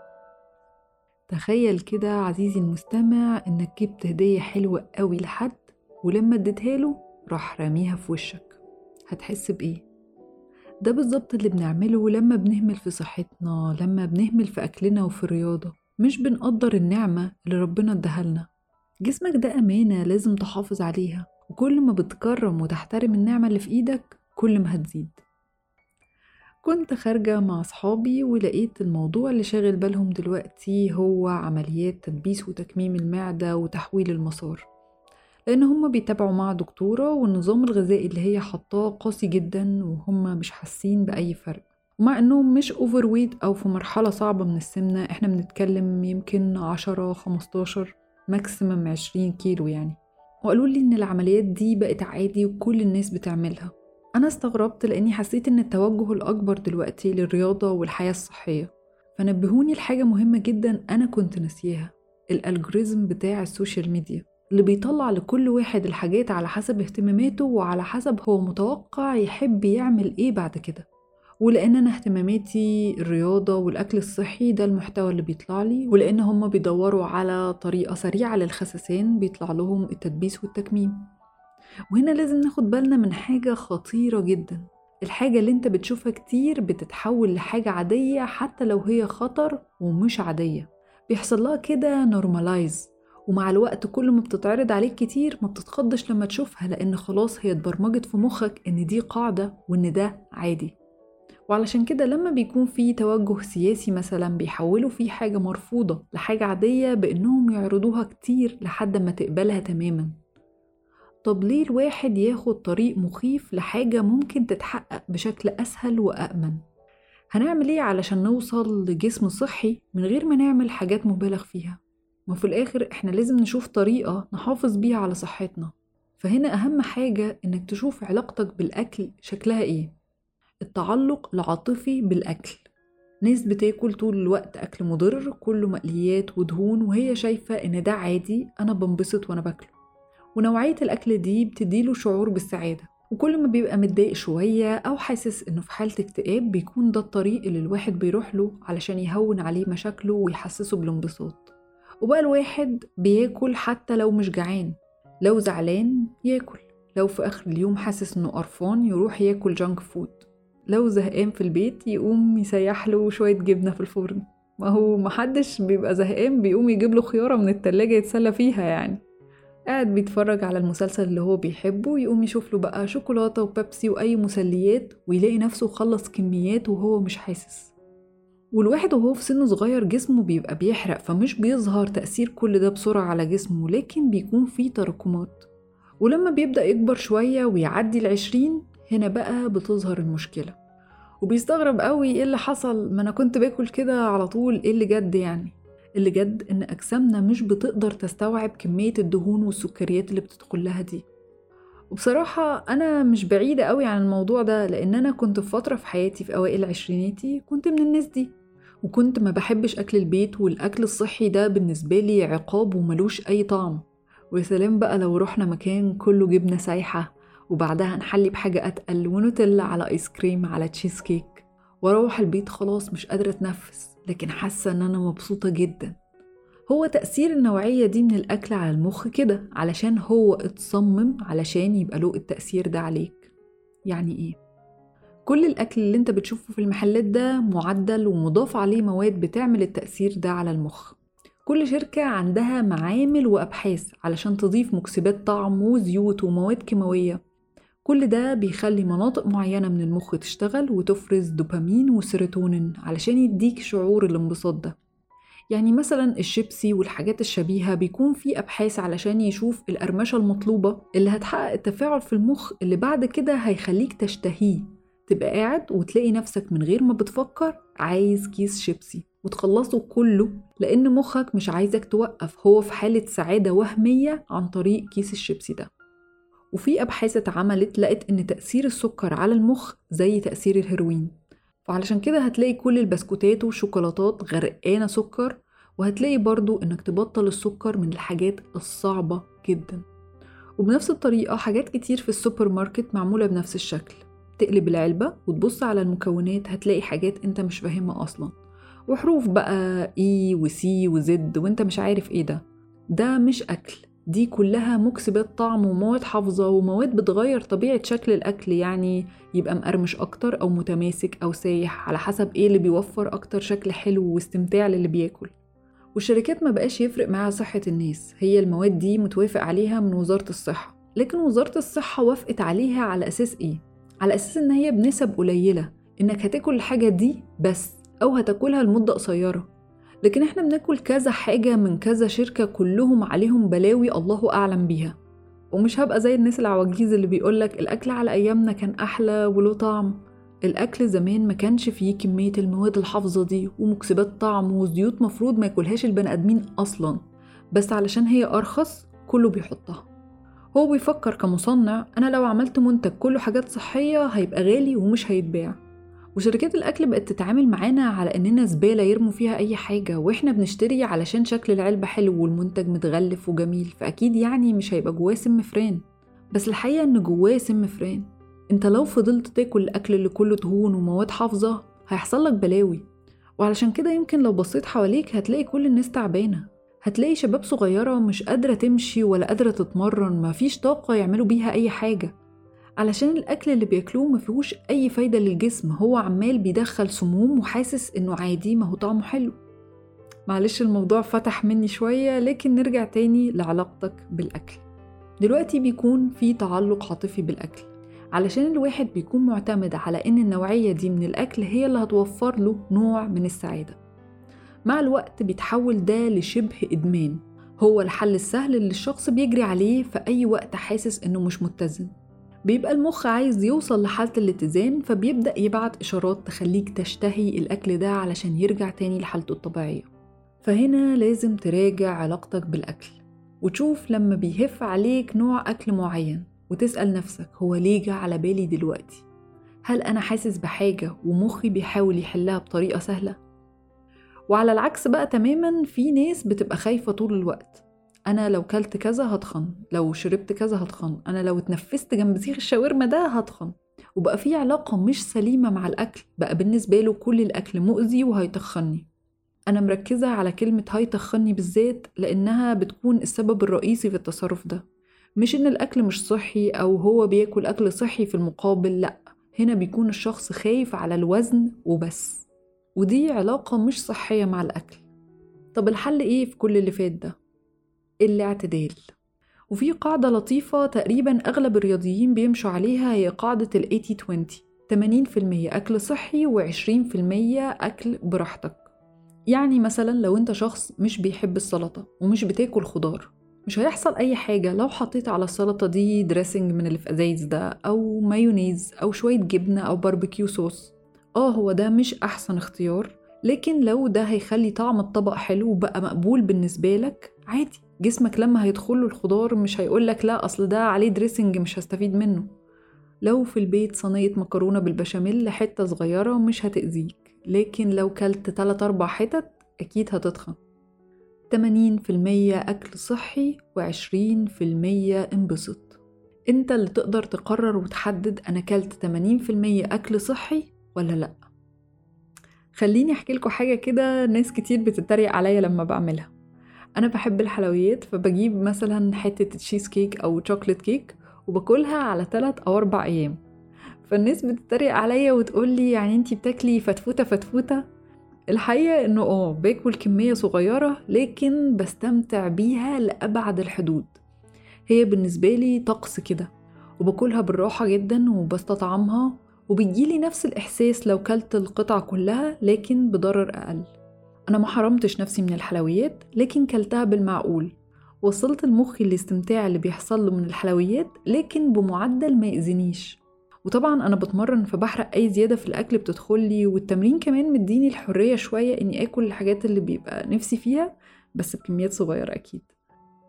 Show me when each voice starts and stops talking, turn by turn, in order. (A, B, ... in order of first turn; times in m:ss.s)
0:01.3-0:09.8 A
0:10.8-0:18.5 A
0:19.0-0:25.2 A
0:26.6-0:34.7 A
0:35.5-1:10.9 A
1:11.4-1:21.1 A
1:21.9-1:40.7 A
1:41.5-1:50.1 A
1:51.2-1:56.6 A
1:57.3-2:09.9 A
2:10.6-2:12.7 A
2:13.2-2:19.8 A
2:20.4-2:49.0 A
2:49.7-2:57.7 A
2:58.5-3:05.5 A
3:06.0-3:10.6 A
3:11.2-3:21.0 A
3:21.9-3:46.0 A
3:46.7-3:53.3 A
3:53.9-3:54.4 A
3:55.3-4:07.2 A
4:07.8-4:14.8 A
4:15.5-4:35.7 A
4:36.5-4:41.1 A
4:41.6-4:49.8 A
4:50.6-4:58.3 A
4:58.9-5:15.3 A
5:16.0-5:29.5 A
5:30.0-5:35.0 A
5:35.5-5:47.0 A
5:47.5-5:49.9 A
5:50.6-5:55.6 A
5:56.2-6:12.8 A
6:13.4-6:22.1 A
6:22.8-6:29.4 A
6:30.3-6:34.6 A
6:35.2-6:43.8 A
6:44.7-6:51.9 A
6:52.5-6:59.9 A
7:00.4-7:09.1 A
7:09.6-7:13.2 A
7:14.3-7:28.9 A
7:29.5-7:34.6 A
7:35.2-7:44.9 A
7:45.5-7:47.2 A
7:48.0-7:48.9 A
7:49.5-7:58.7 A
7:59.3-8:22.3 A
8:23.0-8:30.4 A
8:31.3-8:35.8 A
8:36.3-8:41.2 A
8:42.6-8:46.1 A
8:46.8-8:53.2 A
8:53.8-8:57.6 A
8:58.3-9:04.0 A
9:04.7-9:06.3 A
9:06.8-9:13.7 A
9:14.3-9:32.5 A